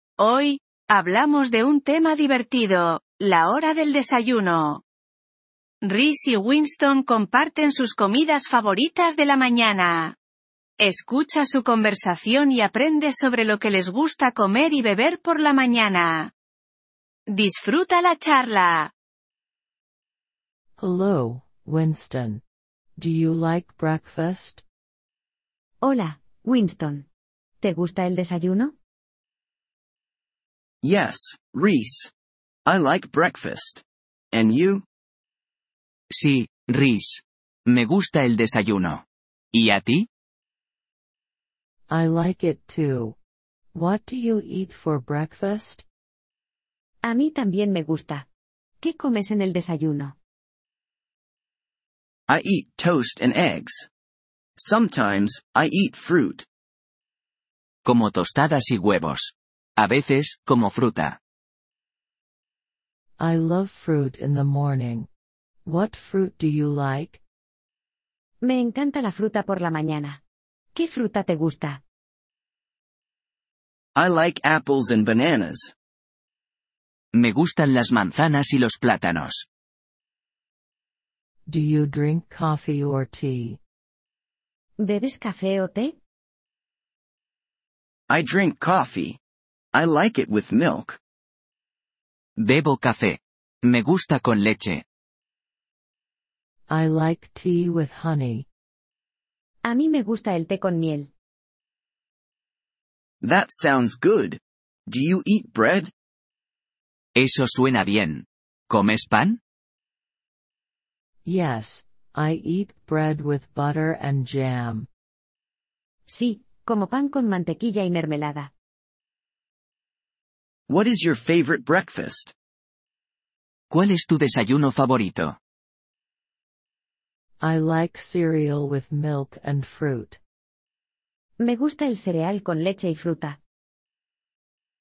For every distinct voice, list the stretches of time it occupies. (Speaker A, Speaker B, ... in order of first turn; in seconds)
Speaker A: 0.2-4.8, 5.8-10.1, 10.8-16.3, 17.3-18.9
Speaker B: 20.8-22.4, 23.0-24.6, 41.9-43.2, 43.7-45.8, 63.2-65.1, 65.6-67.2, 81.5-83.6, 96.7-98.5, 111.2-114.9, 127.4-130.2
Speaker C: 25.8-27.1, 27.6-28.7, 47.0-48.2, 48.8-50.1, 68.4-70.2, 70.8-71.8, 84.8-85.9, 99.7-101.1, 116.1-118.5, 131.4-133.4
Speaker D: 30.8-32.1, 32.6-34.8, 52.3-53.9, 54.6-56.5, 74.0-75.7, 88.1-89.2, 89.7-91.0, 103.2-105.9, 120.7-122.3
Speaker E: 36.1-39.0, 39.5-40.1, 57.9-61.2, 77.1-79.5, 92.4-94.8, 107.2-109.4, 123.7-125.3